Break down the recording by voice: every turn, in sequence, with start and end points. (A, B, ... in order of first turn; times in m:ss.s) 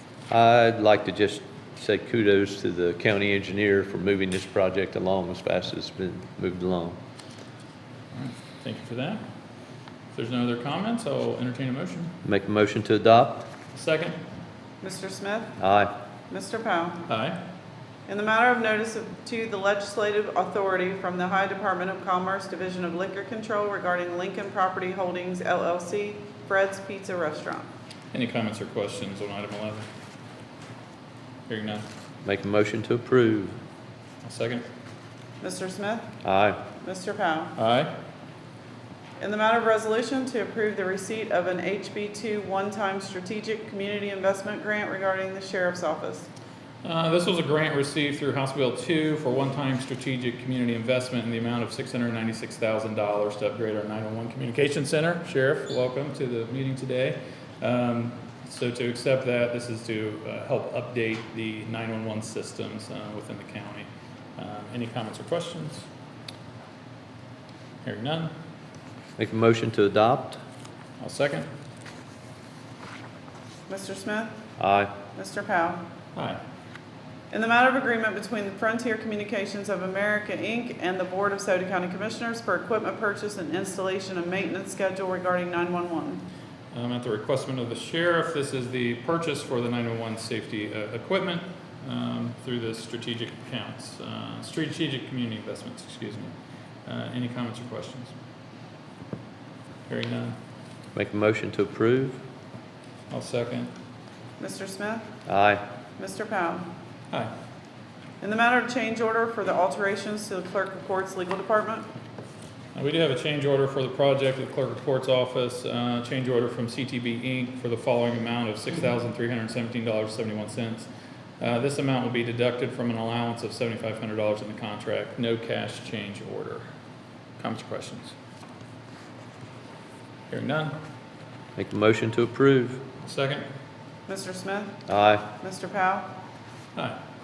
0:00.3-0:07.0 A
0:08.1-0:09.2 B
0:10.2-0:12.1 B
0:12.2-0:13.5 A
0:13.7-0:14.2 B
0:14.8-0:15.6 C
0:15.6-0:15.9 A
0:16.3-0:17.0 C
0:17.1-0:17.4 B
0:18.1-0:27.7 C
0:28.1-0:29.9 B
0:31.5-0:31.8 B
0:32.2-0:33.6 A
0:34.2-0:34.6 B
0:35.4-0:36.1 C
0:36.2-0:36.6 A
0:36.8-0:37.5 C
0:37.6-0:37.9 B
0:39.2-0:46.3 C
0:46.8-1:05.8 B
1:07.8-1:08.3 B
1:09.2-1:10.4 A
1:11.0-1:11.5 B
1:13.7-1:14.3 C
1:14.6-1:14.9 A
1:15.2-1:15.8 C
1:17.3-1:26.2 C
1:26.7-1:36.3 B
1:36.9-1:38.1 B
1:39.9-1:40.4 B
1:41.0-1:42.2 A
1:43.1-1:43.7 B
1:44.4-1:45.1 C
1:45.3-1:45.6 A
1:46.0-1:46.7 C
1:48.2-1:51.9 C
1:52.8-2:00.9 B
2:01.4-2:06.6 B
2:07.4-2:08.2 B
2:10.3-2:10.7 B
2:11.6-2:12.8 A
2:13.0-2:13.4 B
2:14.1-2:14.8 C
2:14.9-2:15.3 A
2:15.4-2:16.1 C